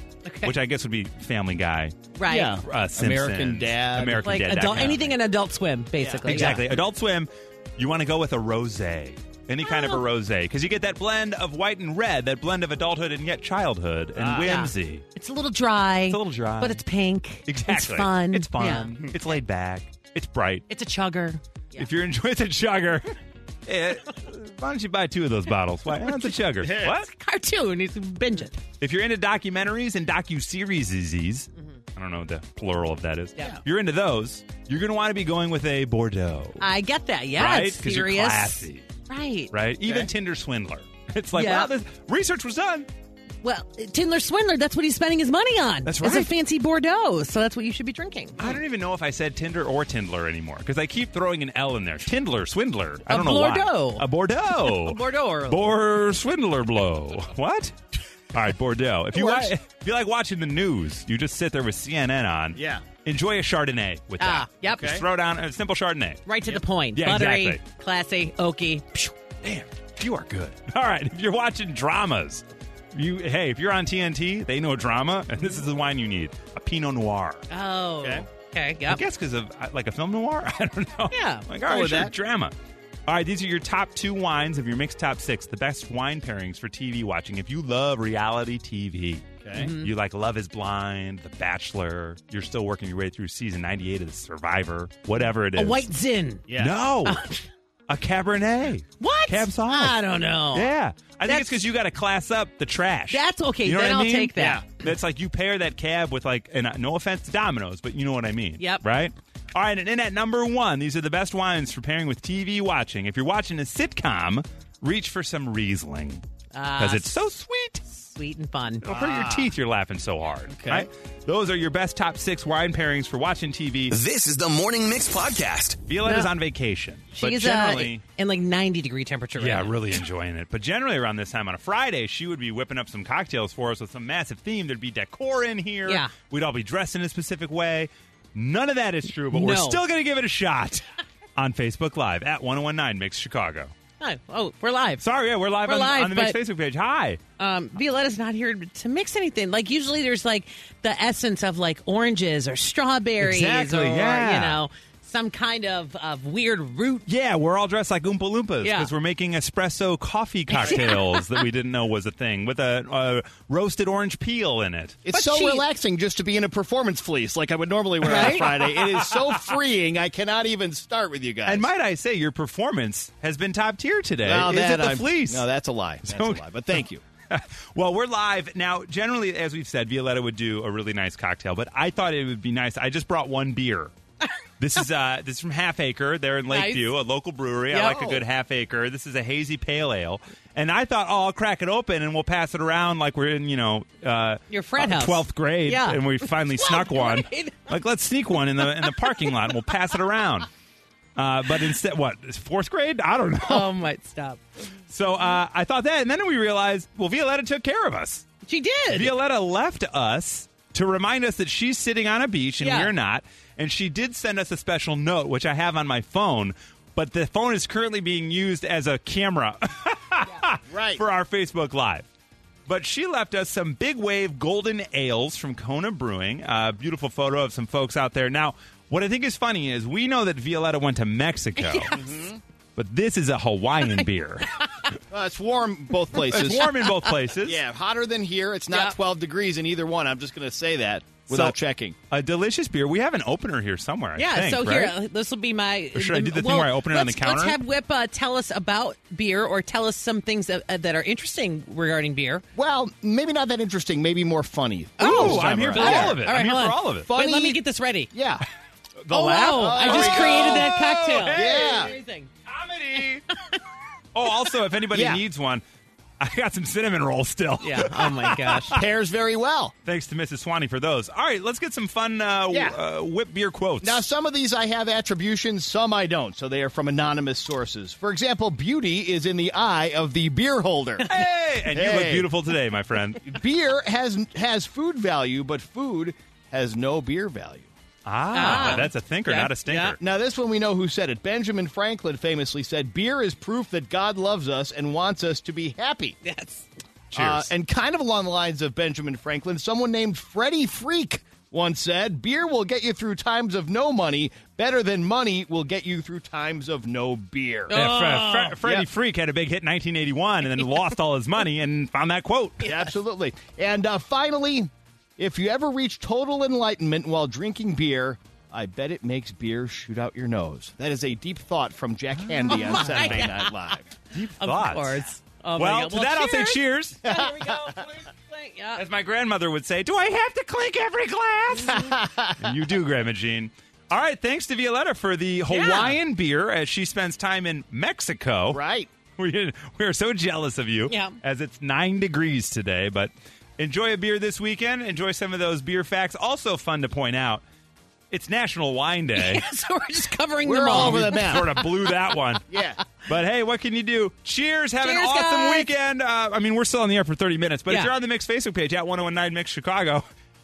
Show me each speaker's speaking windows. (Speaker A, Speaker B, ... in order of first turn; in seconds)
Speaker A: 0.3-0.5, 2.2-2.6, 4.2-6.7, 9.6-10.0, 14.4-19.1, 20.7-21.9, 26.0-28.6, 36.6-39.5, 41.4-41.7, 43.4-48.5, 53.1-55.8, 64.2-65.0, 66.3-69.1, 77.5-79.0, 81.1-81.5, 89.6-89.9, 95.5-96.5, 97.0-97.4, 99.0-100.7, 101.3-101.6, 103.1-104.7, 116.5-117.1, 117.9-118.8, 126.0-126.3, 127.2-130.0, 135.9-136.1, 139.3-139.8, 144.0-145.1, 145.6-146.4, 147.4-157.1, 158.6-158.9, 160.5-161.4, 165.1-165.6, 168.0-168.6, 186.5-186.9, 187.7-188.0, 194.5-197.8, 198.6-199.6, 203.4-204.4, 208.5-209.2, 212.6-212.9, 231.6-232.1, 244.2-252.4, 255.0-258.1, 259.1-262.3, 263.0-263.6, 267.6-268.8, 288.3-289.9, 296.2-296.7, 307.7-308.6, 322.4-323.7, 324.4-328.9, 335.5-336.0, 340.9-341.2, 349.1-351.6, 354.8-355.7
Speaker B: 0.4-5.1, 6.2-15.0, 16.1-16.8, 17.5-20.7, 21.8-23.1, 23.7-27.1, 28.8-36.6, 37.4-38.9, 39.5-42.9, 45.9-46.3, 48.4-57.8, 58.3-66.3, 67.0-67.6, 69.4-77.5, 78.9-82.5, 83.1-95.9, 96.6-97.2, 97.9-100.0, 100.5-116.2, 116.8-117.9, 118.8-124.0, 125.9-128.0, 129.4-140.9, 141.4-143.7, 145.0-147.2, 153.2-154.6, 157.1-165.0, 168.1-169.6, 171.5-175.5, 176.1-176.4, 177.3-183.9, 184.6-200.5, 201.2-203.7, 204.9-208.3, 208.9-222.1, 222.7-232.0, 232.8-234.5, 236.3-237.6, 241.3-241.6, 242.1-244.9, 245.9-247.6, 255.0-257.1, 259.3-261.9, 262.5-263.3, 264.1-265.6, 266.2-268.8, 269.9-274.0, 281.1-283.3, 288.1-290.0, 297.1-297.5, 307.7-312.7, 324.1-325.0, 325.6-327.1, 328.8-338.6, 339.1-347.4, 348.1-349.4, 350.7-352.4, 353.0-360.1
Speaker C: 2.3-4.3, 6.0-6.7, 14.2-14.5, 26.6-26.9, 62.5-62.9, 64.7-65.0, 81.7-82.1, 89.4-89.7, 96.5-96.8, 104.4-104.7, 118.8-119.5, 120.5-120.9, 165.1-171.7, 174.2-177.0, 187.8-188.2, 220.7-221.0, 231.9-232.4, 235.1-236.7, 237.4-242.0, 252.6-256.3, 257.0-257.6, 258.1-258.4, 259.1-260.7, 261.3-261.9, 264.9-265.2, 268.7-269.7, 272.5-272.8, 273.8-282.3, 283.2-287.7, 288.5-288.8, 289.8-296.2, 297.1-307.7, 312.6-323.9, 327.1-327.8, 331.6-332.5, 338.5-338.9, 350.4-351.6, 352.5-352.8
Speaker D: 123.9-125.9